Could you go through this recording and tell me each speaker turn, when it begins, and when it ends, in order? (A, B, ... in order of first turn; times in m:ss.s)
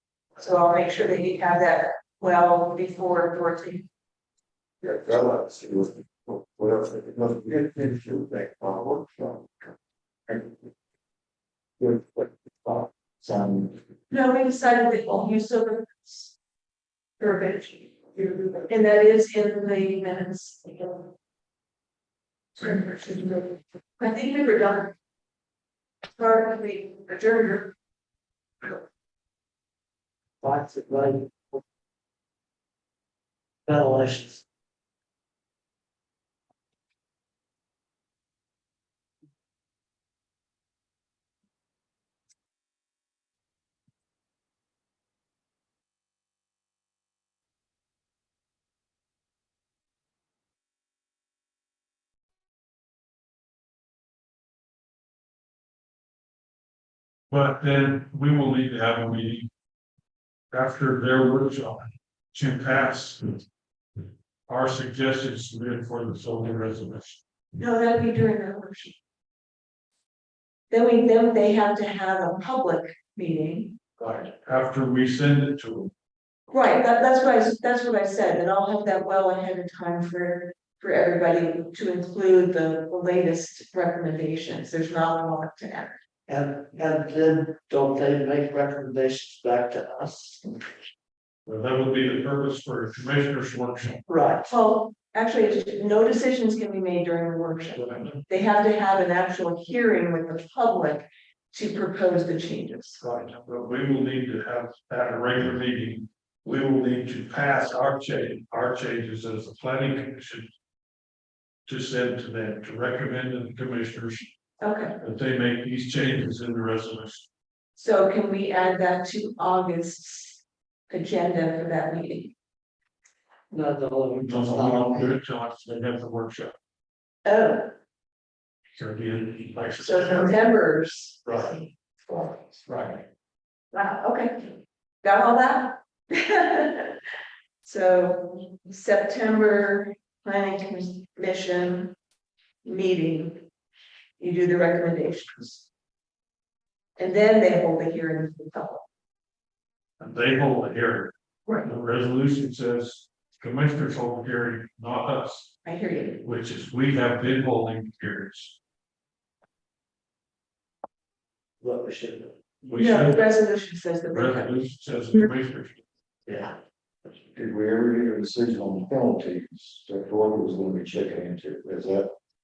0:00.4-0:03.9 A
0:04.8-0:09.7 B
0:10.3-0:10.7 B
0:11.8-0:13.8 B
0:14.1-0:16.3 A
0:17.2-0:21.1 A
0:22.6-0:24.9 A
0:26.2-0:27.7 A
0:30.4-0:31.6 C
0:33.7-0:34.4 C
0:57.3-0:59.5 D
1:00.5-1:03.4 D
1:04.5-1:07.2 D
1:07.6-1:09.0 A
1:10.7-1:13.8 A
1:14.0-1:15.9 D
1:16.5-1:26.0 A
1:26.3-1:30.6 C
1:31.5-1:34.0 D
1:34.1-1:34.5 C
1:34.5-1:43.0 A
1:37.7-1:38.2 D
1:43.0-1:50.5 D
1:51.7-1:54.3 D
1:54.6-1:55.0 A
1:55.0-1:57.3 D
1:57.8-2:02.3 A
2:03.5-2:05.1 C
2:04.2-2:06.6 D
2:07.2-2:07.7 A
2:08.8-2:10.4 D
2:09.8-2:12.4 A
2:11.2-2:11.6 D
2:12.7-2:13.0 D
2:13.7-2:17.0 A
2:17.6-2:22.0 A
2:22.6-2:23.4 A
2:24.2-2:25.7 A
2:27.0-2:28.8 A
2:30.0-2:35.5 D
2:35.6-2:36.2 A
2:36.2-2:38.6 D
2:41.6-2:42.4 C
2:42.6-2:43.3 D
2:42.7-2:44.5 A
2:44.1-2:45.8 D
2:46.3-2:46.6 C
2:47.3-2:52.1 B